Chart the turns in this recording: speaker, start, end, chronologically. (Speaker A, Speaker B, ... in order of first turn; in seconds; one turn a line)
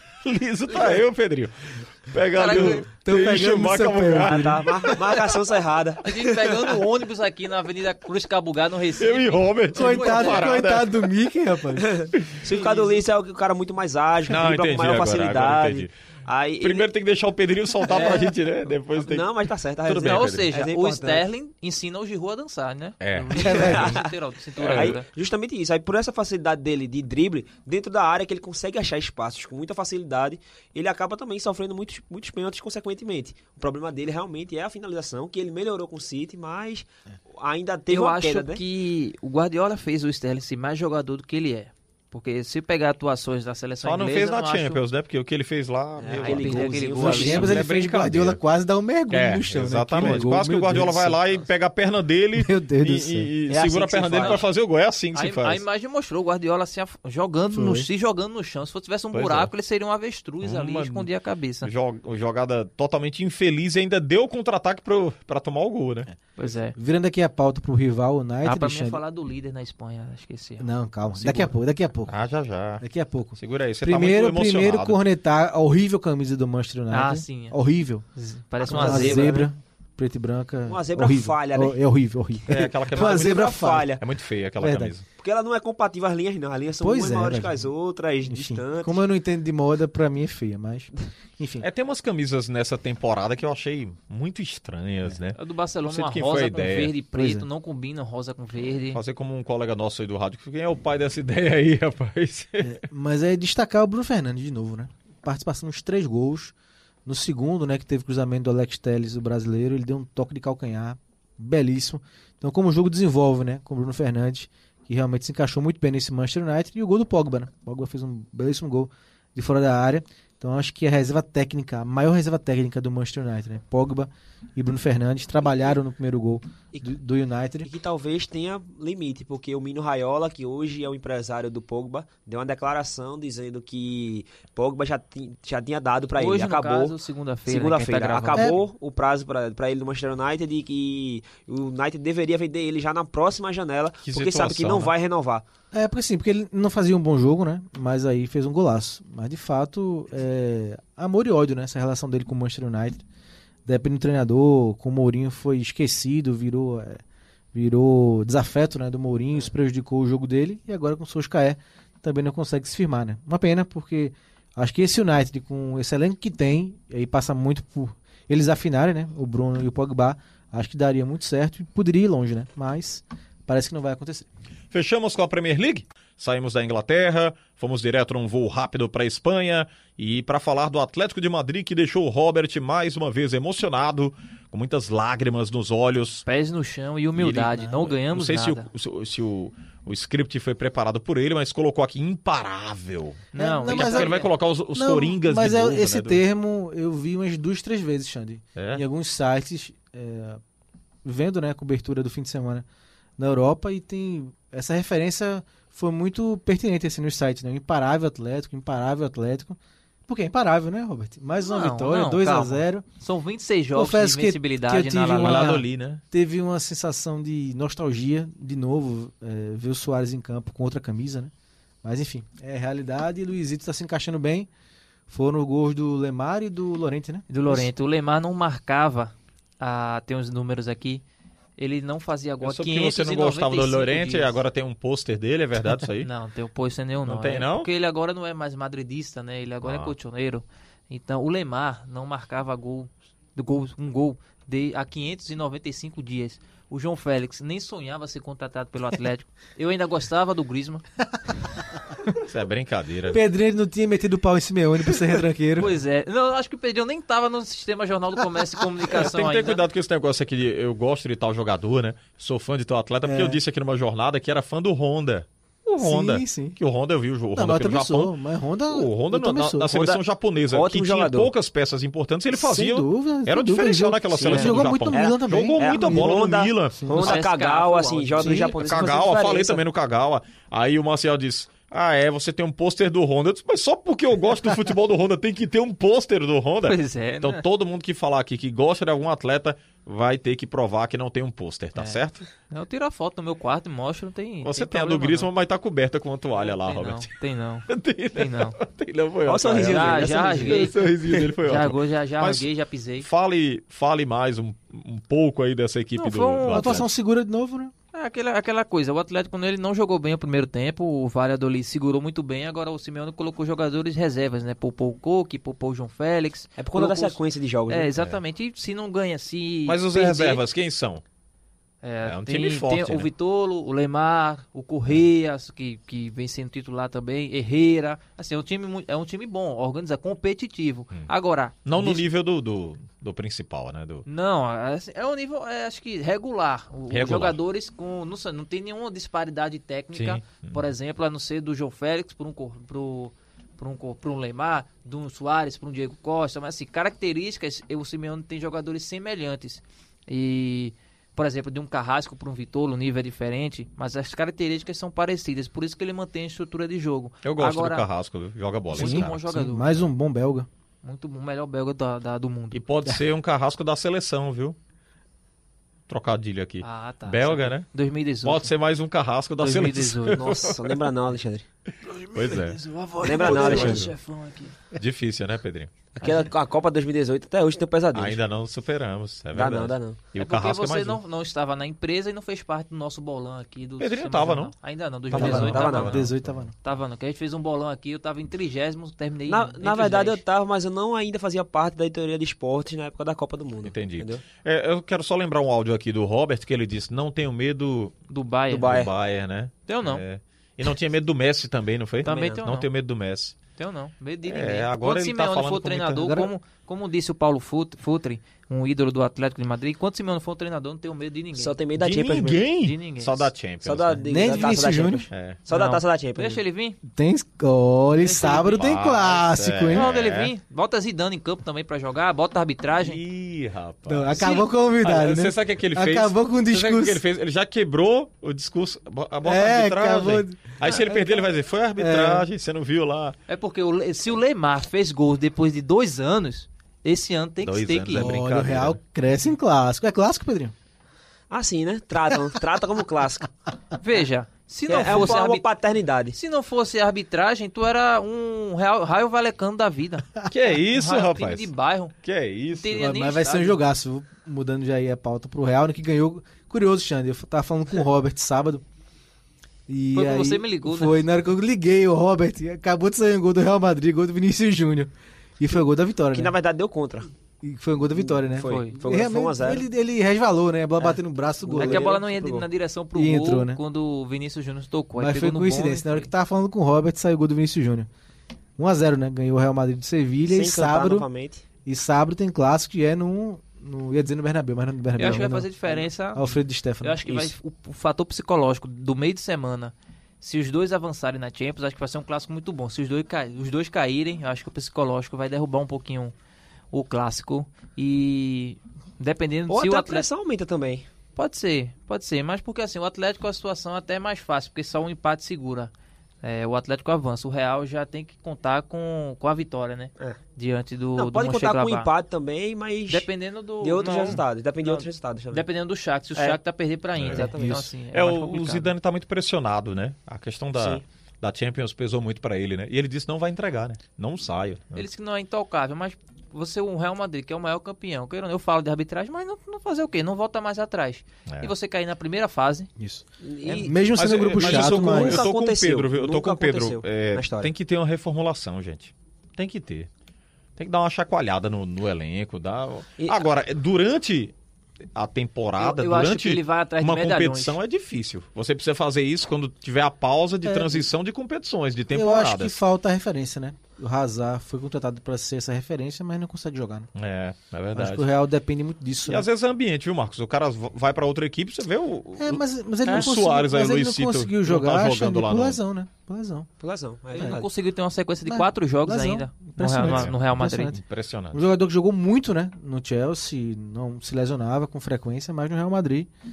Speaker A: 0.2-4.7
Speaker B: 2.3-2.9
Speaker C: 2.5-5.0
Speaker D: 4.2-6.7
Speaker B: 6.0-10.6
Speaker A: 9.0-11.1
Speaker C: 9.7-11.9
Speaker D: 11.8-16.9
Speaker B: 12.4-13.0
Speaker A: 14.3-15.9
Speaker A: 16.6-20.5
Speaker D: 17.9-18.3
Speaker B: 17.9-18.2
Speaker D: 18.9-21.2
Speaker B: 20.0-25.1
Speaker A: 23.0-24.0
Speaker D: 23.4-24.1
Speaker A: 24.6-24.9
Speaker D: 24.6-38.6
Speaker B: 37.9-44.8
Speaker A: 43.8-48.4
Speaker D: 46.0-47.5
Speaker B: 46.2-47.5
Speaker C: 47.0-51.2
Speaker A: 49.1-55.6
Speaker C: 52.4-53.3
Speaker D: 53.5-54.4
Speaker B: 55.1-61.7
Speaker C: 57.5-57.9
Speaker A: 59.1-59.5
Speaker A: 60.4-61.1
Speaker A: 61.6-66.1
Speaker B: 66.4-66.7
Speaker C: 66.7-69.0
Speaker B: 68.4-71.5
Speaker C: 70.6-72.1
Speaker A: 72.1-72.8
Speaker C: 72.8-78.0
Speaker A: 73.4-75.0
Speaker B: 76.9-77.6
Speaker B: 78.1-79.5
Speaker D: 78.6-79.5
Speaker C: 78.7-84.0
Speaker D: 80.7-81.8
Speaker A: 82.5-85.0
Speaker D: 82.9-84.0
Speaker C: 84.6-84.9
Speaker D: 85.2-89.0
Speaker C: 86.8-87.7
Speaker C: 88.2-91.7
Speaker A: 91.6-96.9
Speaker B: 95.3-99.0
Speaker C: 97.1-97.5
Speaker A: 98.9-102.8
Speaker C: 102.6-106.5
Speaker C: 107.0-127.7
Speaker D: 127.6-145.4
Speaker B: 136.2-138.6
Speaker C: 138.3-138.6
Speaker A: 144.0-144.9
Speaker C: 145.7-153.0
Speaker C: 153.7-157.0
Speaker C: 157.5-174.3
Speaker A: 174.7-186.2
Speaker B: 186.2-188.7
Speaker A: 187.2-196.2
Speaker B: 193.3-194.3
Speaker C: 193.3-194.2
Speaker C: 194.7-200.4
Speaker A: 198.6-198.8
Speaker C: 201.0-202.7
Speaker C: 203.2-212.8
Speaker B: 211.4-215.5
Speaker C: 213.7-221.3
Speaker A: 215.2-216.0
Speaker C: 221.8-224.5
Speaker C: 225.1-227.7
Speaker B: 227.3-231.0
Speaker B: 231.6-234.4
Speaker A: 232.4-236.1
Speaker B: 236.0-250.8
Speaker A: 237.0-237.7
Speaker A: 239.6-239.9
Speaker A: 252.2-253.2
Speaker C: 253.1-255.8
Speaker B: 255.6-259.6
Speaker A: 258.9-268.1
Speaker C: 263.0-263.4
Speaker C: 265.8-266.6
Speaker C: 267.3-269.8
Speaker A: 268.7-277.2
Speaker D: 269.7-270.0
Speaker D: 270.5-271.3
Speaker C: 272.3-276.1
Speaker D: 274.1-279.6
Speaker B: 276.9-278.5
Speaker C: 278.2-278.6
Speaker A: 278.5-292.2
Speaker B: 286.6-287.4
Speaker B: 291.8-295.3
Speaker A: 294.4-297.1
Speaker B: 296.4-298.6
Speaker A: 297.7-306.9
Speaker D: 299.3-301.2
Speaker B: 299.6-300.7
Speaker B: 301.4-303.1
Speaker B: 306.0-306.8
Speaker C: 306.5-307.7
Speaker B: 307.9-320.4
Speaker D: 316.6-317.9
Speaker A: 319.6-321.0
Speaker B: 321.8-332.0
Speaker A: 322.0-323.1
Speaker A: 331.6-334.1
Speaker B: 334.1-357.9
Speaker A: 336.9-337.4
Speaker A: 339.9-340.6
Speaker A: 357.2-359.3
Speaker B: 358.7-359.7
Speaker C: 358.7-360.5
Speaker B: 360.8-362.6
Speaker A: 362.5-364.6
Speaker A: 365.9-367.7
Speaker B: 366.6-368.5
Speaker A: 368.2-370.9
Speaker B: 369.4-370.3
Speaker D: 370.1-371.4
Speaker B: 371.8-374.6
Speaker A: 372.1-373.9
Speaker D: 373.0-373.9
Speaker A: 374.7-375.7
Speaker D: 375.9-378.2
Speaker B: 376.0-376.3
Speaker A: 377.9-381.0
Speaker D: 379.3-380.0
Speaker B: 380.1-386.1
Speaker A: 383.8-384.5
Speaker A: 385.1-386.4
Speaker C: 385.1-386.5
Speaker D: 385.1-386.0
Speaker B: 386.6-390.2
Speaker D: 389.3-394.2
Speaker A: 393.6-397.9
Speaker B: 398.1-398.7
Speaker D: 398.5-398.9
Speaker A: 398.6-403.4
Speaker B: 399.7-400.0
Speaker B: 402.0-402.7
Speaker D: 402.0-402.4
Speaker B: 403.6-411.6
Speaker A: 404.2-406.2
Speaker C: 406.0-406.3
Speaker D: 411.3-412.4
Speaker A: 411.8-414.0
Speaker B: 412.6-413.3
Speaker D: 413.6-416.4
Speaker C: 414.1-415.1
Speaker A: 415.1-415.4
Speaker B: 415.5-416.8
Speaker C: 416.8-419.9
Speaker B: 418.0-418.6
Speaker A: 418.3-420.3
Speaker B: 419.7-423.0
Speaker A: 422.8-433.1
Speaker C: 423.9-427.0
Speaker B: 424.2-424.5
Speaker C: 429.2-432.3
Speaker B: 433.3-438.1
Speaker A: 437.4-438.8
Speaker C: 437.9-440.5
Speaker D: 441.3-443.3
Speaker B: 443.8-445.4
Speaker D: 444.7-446.2
Speaker B: 446.1-450.1
Speaker A: 450.3-451.5
Speaker B: 450.7-451.9
Speaker A: 452.0-452.9
Speaker B: 452.6-453.6
Speaker C: 452.8-458.6
Speaker C: 459.7-466.3
Speaker B: 459.9-461.0
Speaker D: 466.1-467.1
Speaker C: 467.4-471.9
Speaker D: 468.0-469.6
Speaker B: 468.4-468.8
Speaker D: 471.4-472.5
Speaker B: 471.5-476.1
Speaker C: 472.9-473.6
Speaker C: 475.0-477.9
Speaker C: 478.6-481.1
Speaker D: 480.3-481.4
Speaker C: 481.6-485.5
Speaker B: 485.0-496.1
Speaker C: 486.1-487.3
Speaker B: 496.7-500.1
Speaker D: 499.5-500.9
Speaker B: 501.1-505.7
Speaker B: 506.2-511.9
Speaker D: 510.9-513.1
Speaker B: 512.9-518.7
Speaker D: 513.6-515.4
Speaker A: 517.0-517.3
Speaker D: 517.1-517.6
Speaker C: 517.3-517.7
Speaker A: 517.9-524.9
Speaker D: 520.5-520.8
Speaker B: 524.7-532.7
Speaker C: 532.8-533.0
Speaker D: 533.2-533.8
Speaker B: 533.4-533.7
Speaker C: 533.6-535.3
Speaker A: 534.0-539.9
Speaker D: 534.3-537.5
Speaker A: 540.6-544.3
Speaker A: 544.9-552.6
Speaker B: 545.6-547.6
Speaker C: 550.4-550.9
Speaker C: 551.9-556.9
Speaker A: 557.0-558.1
Speaker C: 557.7-559.2
Speaker A: 559.1-565.6
Speaker C: 562.2-566.5
Speaker D: 566.6-567.5
Speaker B: 567.1-570.7
Speaker C: 568.2-570.8
Speaker A: 569.8-571.5
Speaker C: 571.3-576.1